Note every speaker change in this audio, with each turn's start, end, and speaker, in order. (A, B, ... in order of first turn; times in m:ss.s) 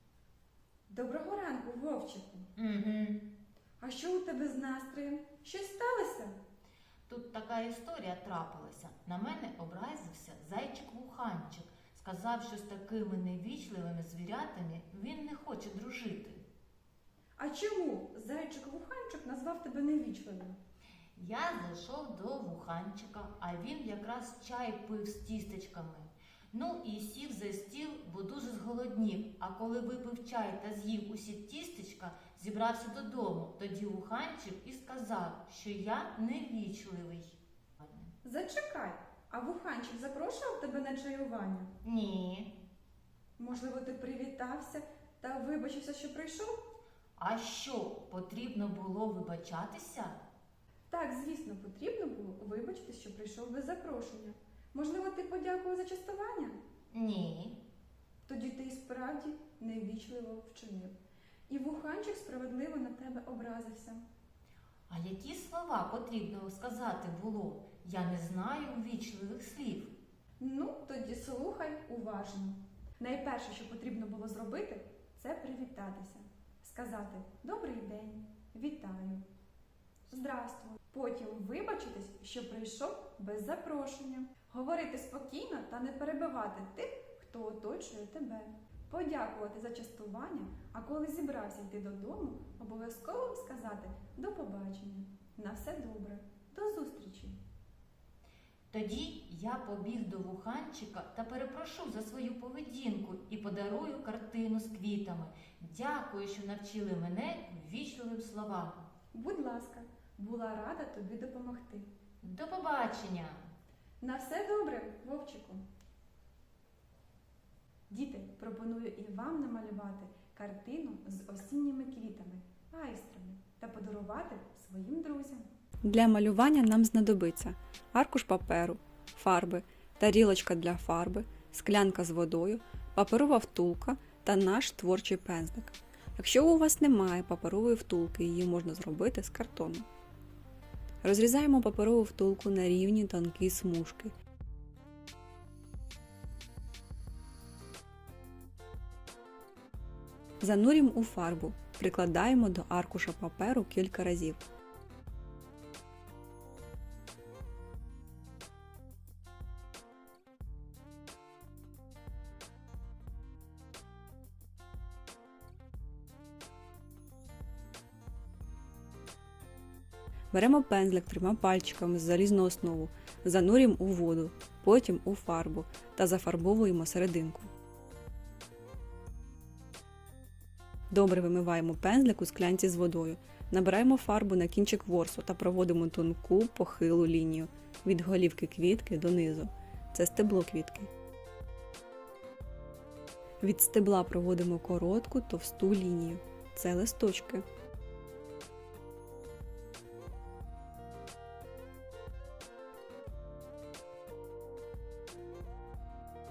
0:00.9-0:02.5 A
0:02.6-0:03.2 B
0:03.8-0:06.4 A
0:07.1-0:16.4 B
0:17.4-0:20.6 A
0:21.2-0:38.1 B
0:38.2-0:41.7 A
0:41.8-0:42.5 B
0:43.4-0:46.6 A
0:47.2-0:50.2 B
0:50.9-0:56.6 A
0:56.9-0:57.6 B
0:58.3-1:01.0 A
1:01.5-1:04.0 A
1:04.9-1:09.9 B
1:10.4-1:19.2 A
1:20.1-1:37.4 A
1:38.7-1:48.8 B
1:49.1-1:51.9 A
1:52.2-1:53.5 B
1:54.0-1:55.6 A
1:57.9-2:05.5 A
2:05.8-2:19.9 C
2:21.0-2:24.1 C
2:30.4-2:34.4 C
2:50.3-2:57.5 C
3:00.9-3:10.9 C
3:13.4-3:17.4 C